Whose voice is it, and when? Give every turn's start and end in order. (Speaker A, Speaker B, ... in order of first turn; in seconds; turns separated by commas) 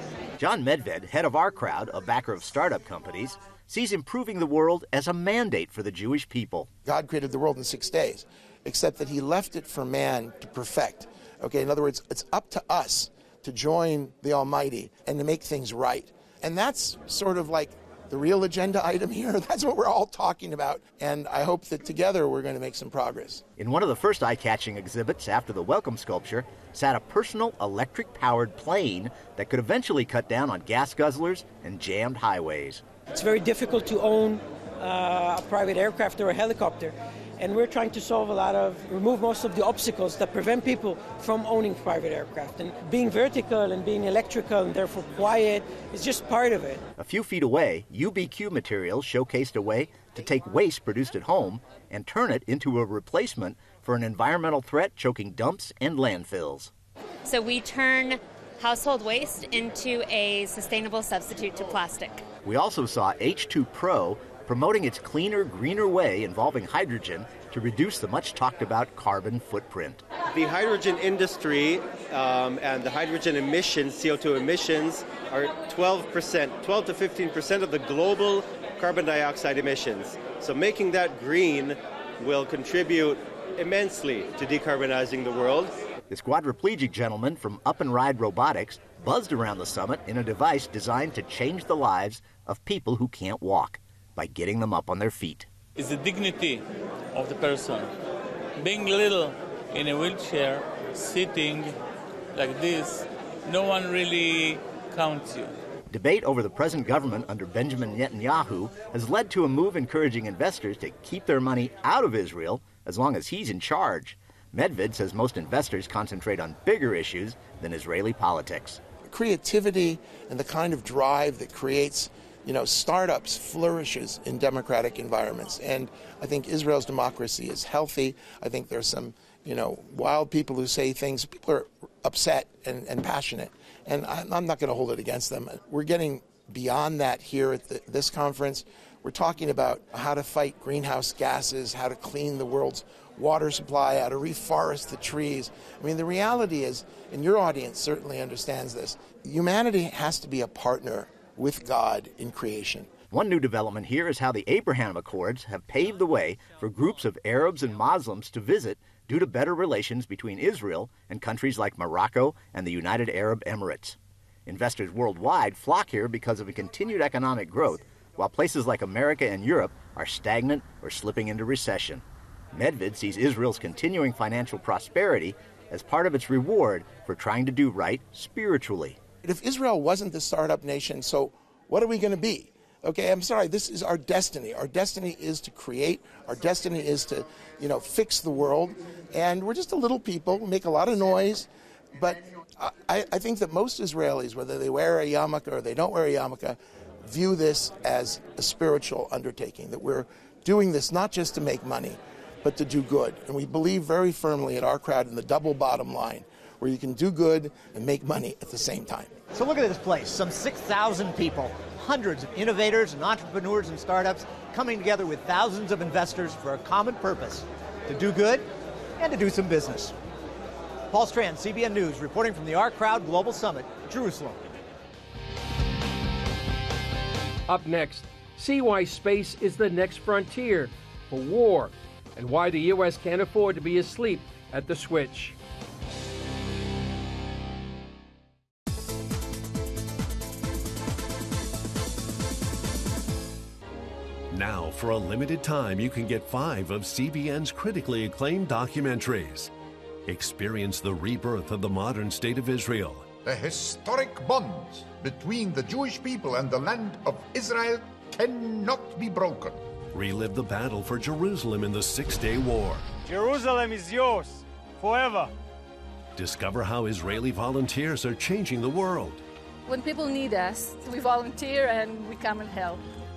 Speaker A: 0.4-6.7, Speaker B: 6.8-23.4, Speaker A: 23.6-32.8, Speaker C: 33.1-46.8, Speaker A: 47.0-56.7, Speaker D: 57.2-62.2, Speaker A: 62.4-70.0, Speaker E: 70.3-85.7, Speaker A: 86.1-95.5, Speaker F: 95.8-97.9, Speaker F: 98.6-101.8, Speaker F: 102.3-105.5, Speaker A: 105.9-118.8, Speaker B: 119.1-152.9, Speaker A: 153.1-179.0, Speaker B: 179.2-209.2, Speaker G: 209.3-218.4, Speaker G: 219.0-219.9, Speaker G: 220.9-224.4, Speaker H: 227.5-235.3, Speaker I: 244.3-249.5, Speaker I: 250.1-253.1, Speaker J: 253.2-259.6, Speaker I: 259.9-262.8, Speaker I: 266.1-269.2, Speaker K: 269.7-272.8